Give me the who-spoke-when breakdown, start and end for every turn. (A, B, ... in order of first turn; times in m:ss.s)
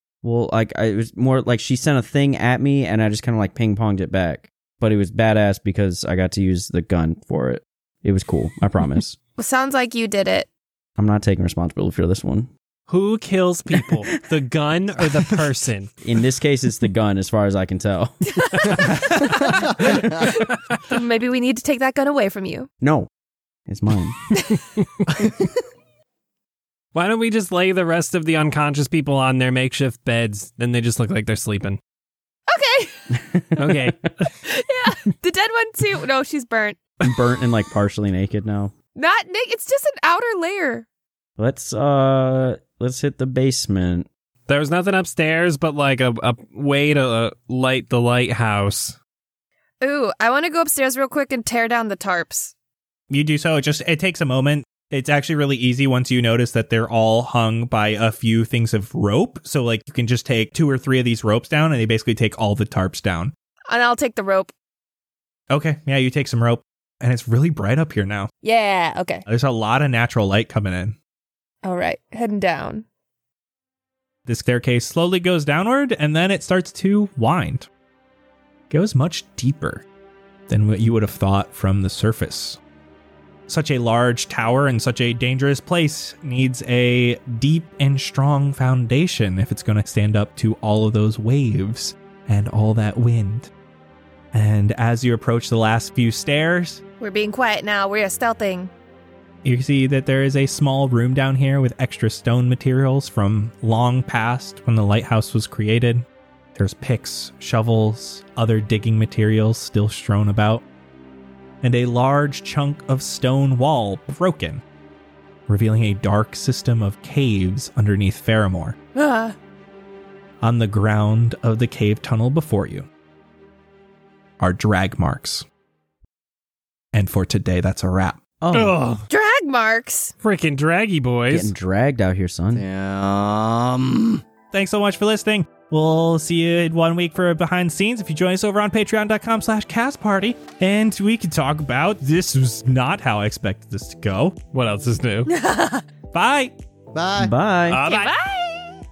0:00.2-0:09.2 A
0:09.4-0:10.5 B
0:11.0-0:12.5 A
0:12.9-0:15.9 C
0:13.8-0:14.2 A
0:16.0-0:19.0 A
0:18.3-0:19.6 B
0:18.7-0:20.8 C
0:20.2-0:22.7 B
0:22.8-0:23.1 A
0:23.7-0:24.3 A
0:24.3-0:24.6 B
0:26.9-0:31.8 C
0:32.5-0:33.1 B
0:33.3-0:33.9 A
0:33.6-0:34.3 C
0:34.5-0:36.8 B
0:37.0-0:38.7 A
0:39.0-0:40.9 B
0:41.4-0:44.1 A
0:44.5-0:49.0 C
0:49.8-0:52.5 B
0:53.1-1:03.3 D
1:03.7-1:04.5 B
1:05.5-1:08.3 D
1:08.4-1:09.2 B
1:09.3-1:11.0 D
1:11.6-1:12.9 B
1:14.3-1:17.7 D
1:18.7-1:19.8 D
1:20.5-1:22.6 D
1:23.5-1:33.5 D
1:34.3-1:36.8 D
1:37.0-1:38.7 B
1:39.4-1:50.6 D
1:51.6-1:54.6 D
1:55.5-1:58.8 D
1:59.0-1:59.4 B
2:00.4-2:02.9 D
2:04.4-2:05.5 D
2:06.9-2:08.2 D
2:08.4-2:08.8 A
2:08.5-2:09.1 C
2:09.1-2:10.1 B
2:10.2-2:11.5 C
2:11.3-2:12.7 A
2:12.5-2:14.2 E
2:14.5-2:24.4 D
2:24.5-2:25.3 C
2:25.3-2:25.8 B
2:26.1-2:26.5 D
2:26.9-2:27.3 E
2:27.2-2:27.8 A
2:27.7-2:28.1 C
2:27.9-2:28.8 B